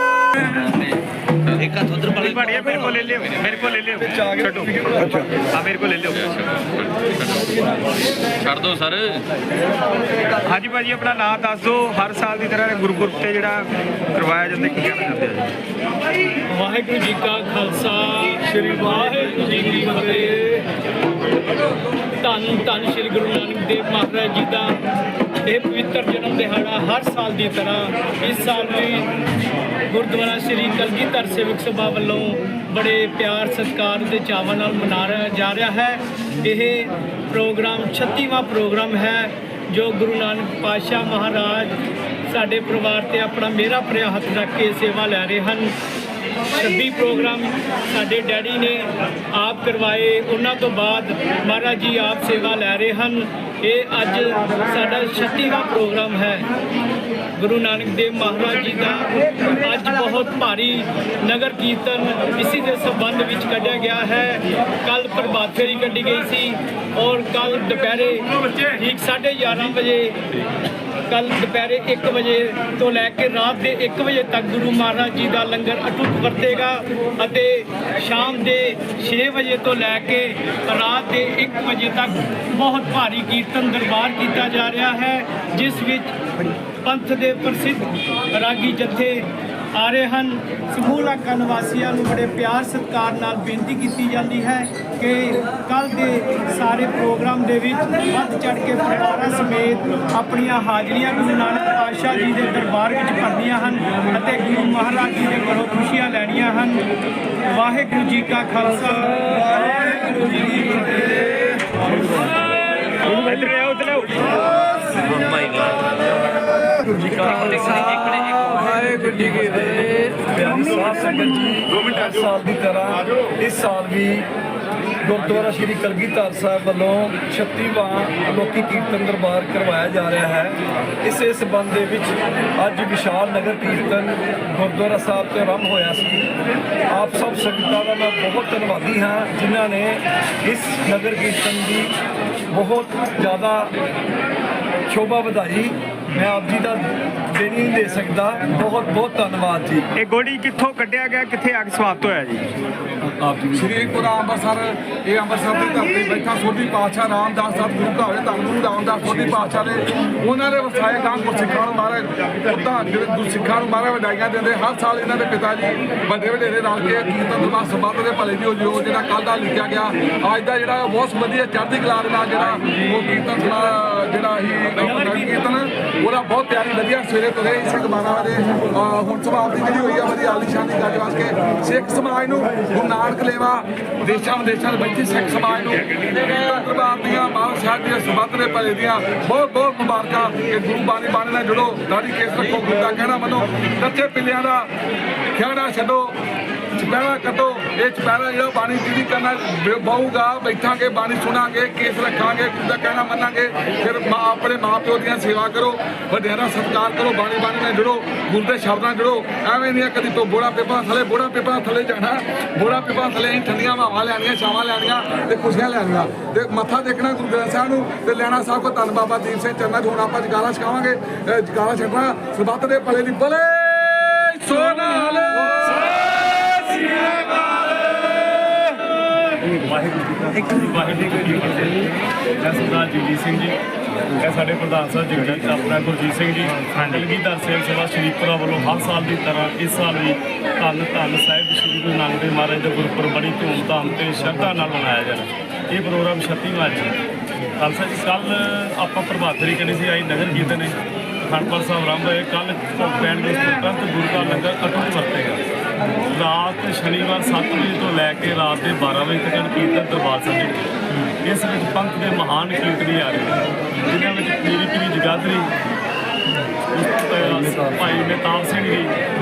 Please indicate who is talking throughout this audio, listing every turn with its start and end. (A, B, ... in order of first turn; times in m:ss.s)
0:01.6-0:07.7 A
0:04.0-0:05.4 B
0:10.4-0:15.4 A
0:16.5-0:20.6 C
0:22.2-0:24.8 C
0:25.4-0:29.1 C
0:29.9-0:41.8 C
0:42.3-0:45.7 C
0:46.6-0:56.5 C
0:57.4-1:10.2 C
1:11.1-1:26.2 C
1:26.8-1:46.8 C
1:47.5-1:51.0 C
1:53.0-1:54.5 A
1:56.9-2:04.3 B
2:05.0-2:16.3 B
2:16.9-2:21.9 B
2:22.5-2:23.7 B
2:24.9-2:29.8 B
2:30.0-2:32.4 A
2:33.0-2:33.7 B
2:33.5-3:14.7 D
3:15.3-3:16.2 D
3:16.8-3:47.6 D
3:49.5-3:53.6 E
3:54.2-4:06.9 E
4:07.6-4:15.4 E
4:16.0-4:20.6 E
4:21.2-4:25.5 E
4:26.7-4:28.9 E
4:27.4-4:27.7 B